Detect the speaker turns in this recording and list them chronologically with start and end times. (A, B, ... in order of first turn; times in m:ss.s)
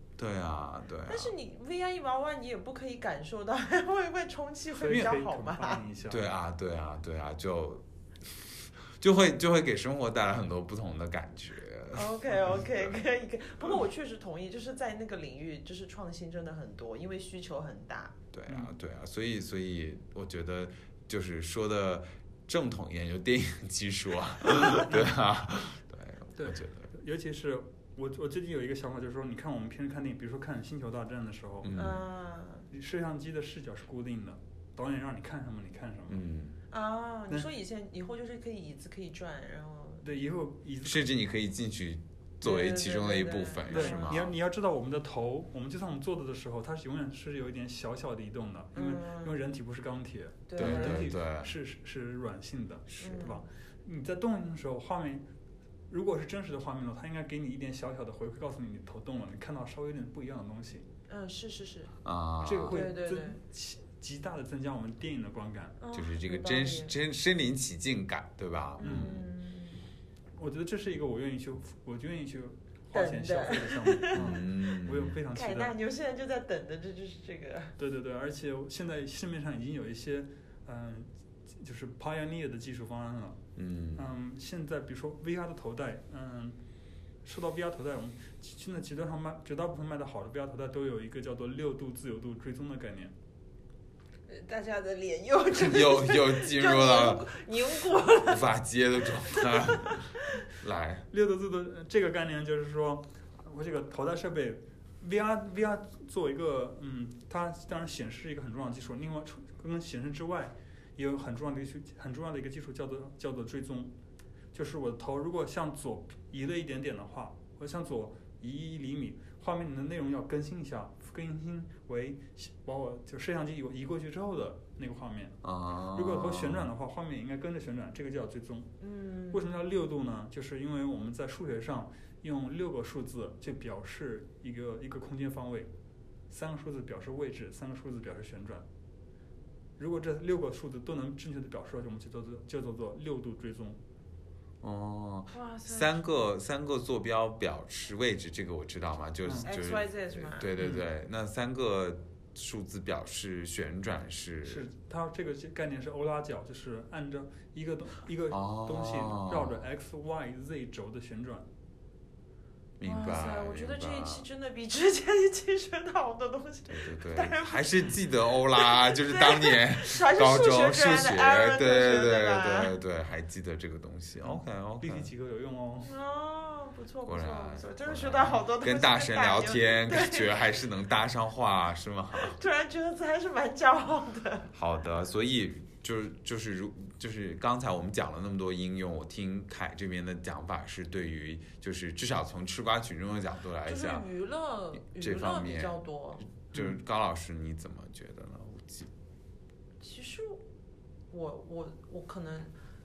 0:00.2-0:01.3 A
0:01.1-0:05.8 B
0:04.8-0:06.3 C
0:06.1-0:13.0 A
0:11.9-0:18.2 B
0:18.3-0:26.9 A
0:18.5-0:18.7 C
0:24.8-0:25.2 C
0:26.4-0:31.8 C
0:31.6-0:32.0 A
0:31.7-0:32.7 B
0:32.7-0:36.2 C
0:36.1-0:36.6 A
0:36.7-0:40.1 B
0:40.0-0:41.1 C
0:40.8-0:44.3 A
0:42.4-0:44.2 B
0:43.7-0:55.3 C
0:48.7-0:49.4 B
0:50.5-0:51.1 B
0:50.6-0:51.5 A
0:52.9-0:53.4 B
0:55.9-1:00.9 C
1:01.1-1:01.9 B
1:02.0-1:02.9 A
1:02.4-1:05.8 C
1:02.7-1:03.4 B
1:05.8-1:07.0 B
1:05.9-1:09.2 A
1:08.8-1:09.8 B
1:08.8-1:09.3 C
1:10.4-1:15.8 C
1:12.9-1:14.4 B
1:14.2-1:15.2 A
1:15.3-1:17.8 B
1:17.8-1:23.4 C
1:23.6-1:24.1 A
1:24.0-1:26.6 C
1:27.2-1:33.1 C
1:34.3-1:38.5 B
1:35.6-1:37.3 A
1:38.2-1:41.1 A
1:39.3-1:40.1 B
1:41.1-1:53.9 C
1:54.5-2:05.4 C
2:05.4-2:06.7 A
2:05.9-2:08.8 C
2:08.8-2:09.4 B
2:09.3-2:15.7 C
2:16.3-2:18.7 C
2:19.8-2:23.8 C
2:24.6-2:34.7 A
2:25.3-2:26.2 B
2:29.4-2:30.5 B
2:30.6-2:30.9 C
2:34.4-2:41.5 C
2:38.3-2:39.6 A
2:42.8-2:44.3 A
2:42.8-2:48.0 B
2:46.7-2:55.1 A
2:48.5-2:52.7 B
2:54.2-2:55.9 C
2:55.8-3:00.5 B
2:57.0-3:02.4 A
3:02.1-3:04.5 B
3:04.5-3:14.1 A
3:13.6-3:16.2 B
3:14.8-3:18.9 A
3:19.8-3:20.5 B
3:21.1-3:22.5 B